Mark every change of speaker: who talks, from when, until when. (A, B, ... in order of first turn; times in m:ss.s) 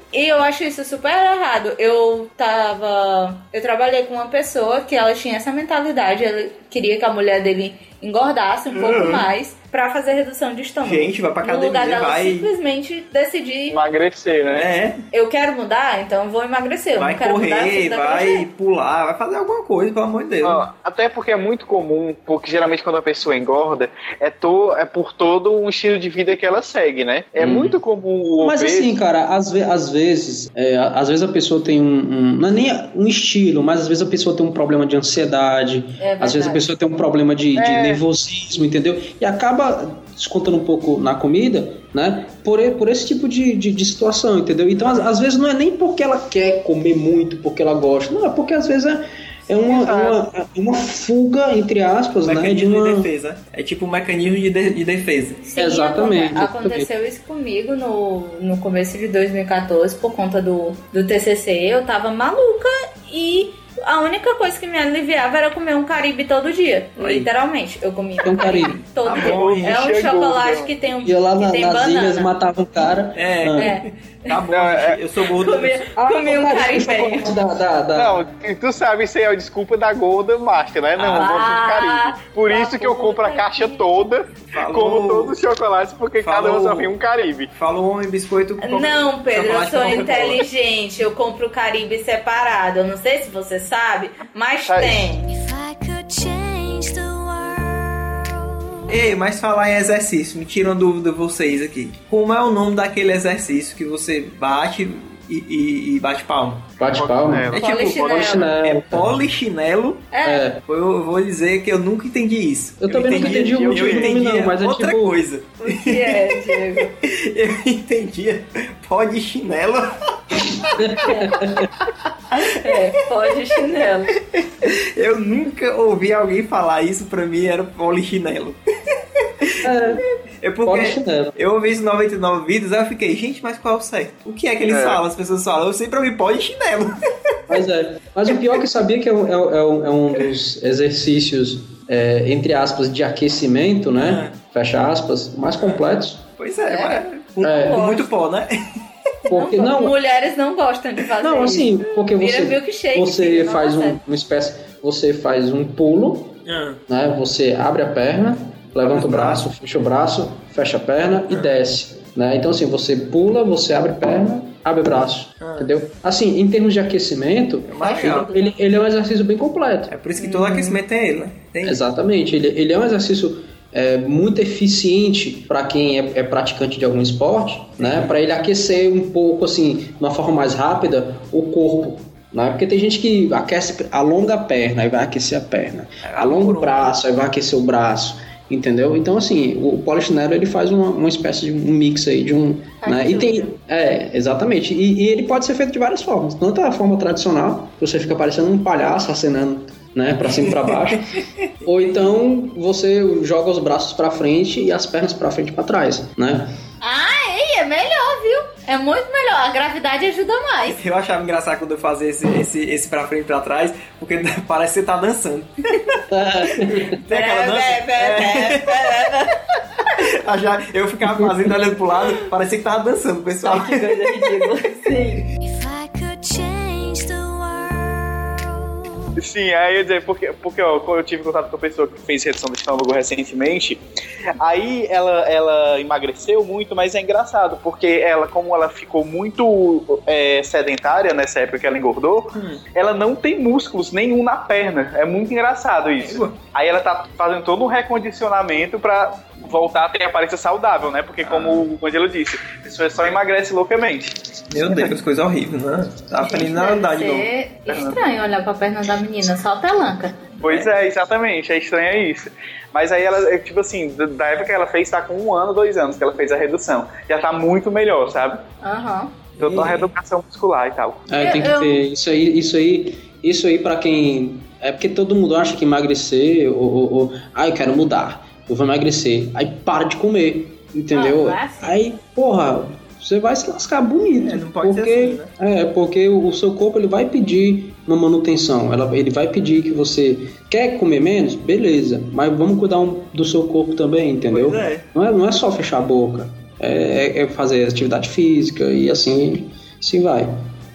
0:00.1-0:13.8 A
0:08.7-0:09.3 B
0:10.8-0:12.5 B
0:13.7-0:14.7 C
0:14.5-0:15.0 B
0:15.1-0:18.5 A
0:16.9-0:20.6 B
0:20.4-0:29.0 C
0:27.4-0:27.8 D
0:28.4-0:53.1 D
0:36.0-0:36.7 A
0:37.6-0:38.0 C
0:44.8-0:45.1 B
0:49.7-0:50.2 C
0:52.2-0:55.5 B
0:55.5-1:12.3 A
0:55.6-0:56.9 D
1:07.0-1:07.3 B
1:08.2-1:08.8 D
1:09.0-1:09.8 B
1:09.1-1:10.7 C
1:11.0-1:13.8 D
1:13.1-1:15.8 B
1:13.6-1:14.4 A
1:14.5-1:15.0 C
1:15.3-1:17.4 A
1:15.9-1:18.3 D
1:18.0-1:27.5 C
1:21.0-1:21.3 B
1:21.0-1:23.9 A
1:24.5-1:25.4 B
1:26.2-1:26.9 B
1:27.5-1:30.4 B
1:28.6-1:35.2 A
1:34.7-1:35.1 C
1:35.2-1:38.9 E
1:38.9-1:46.8 B
1:46.8-1:49.2 D
1:47.1-1:47.6 C
1:47.5-1:50.1 B
1:47.6-1:48.5 A
1:50.1-1:50.4 A
1:50.2-1:50.6 D
1:50.6-2:01.1 B
1:52.8-1:55.2 D
1:52.9-1:54.1 C
1:55.7-1:57.0 A
2:00.8-2:01.7 D
2:01.0-2:01.4 A
2:02.3-2:02.8 B
2:02.3-2:04.2 A
2:04.3-2:08.6 B
2:09.2-2:17.4 B
2:09.6-2:10.0 D
2:10.6-2:11.4 D
2:14.7-2:15.0 C
2:17.5-2:26.3 D
2:24.0-2:24.4 B
2:25.6-2:25.8 B
2:26.4-2:28.5 B
2:26.6-2:28.1 A
2:27.4-2:27.9 D
2:29.2-2:34.0 A
2:29.3-2:29.9 D
2:31.2-2:49.9 D
2:36.4-2:36.8 B
2:38.8-2:39.4 B
2:45.4-2:45.7 B
2:47.6-2:48.3 B
2:47.8-2:48.5 A
2:49.9-2:51.8 B
2:50.2-2:50.8 A
2:51.6-3:26.5 D
2:57.8-2:58.2 B
3:06.0-3:06.9 B
3:12.8-3:13.6 A
3:20.3-3:22.0 B
3:26.8-3:30.8 A
3:30.6-3:36.0 B
3:36.1-3:37.0 D
3:36.7-3:38.8 B
3:37.1-3:39.4 A
3:40.0-3:43.9 B
3:41.0-3:41.5 D
3:43.4-3:45.3 A
3:45.4-3:49.1 E
3:49.2-3:53.8 C
3:54.3-4:14.2 C
4:02.3-4:02.6 B
4:06.0-4:06.4 B
4:11.2-4:11.6 B
4:14.5-4:17.3 B
4:16.2-4:20.2 A
4:17.7-4:18.0 C
4:20.4-4:28.4 C
4:20.4-4:20.7 B
4:28.6-4:29.2 A
4:29.4-4:29.9 B
4:29.4-4:31.1 C
4:31.1-5:00.4 D
4:31.2-4:31.8 A
4:40.9-4:41.7 A
4:44.2-4:45.3 B
4:54.3-4:54.8 B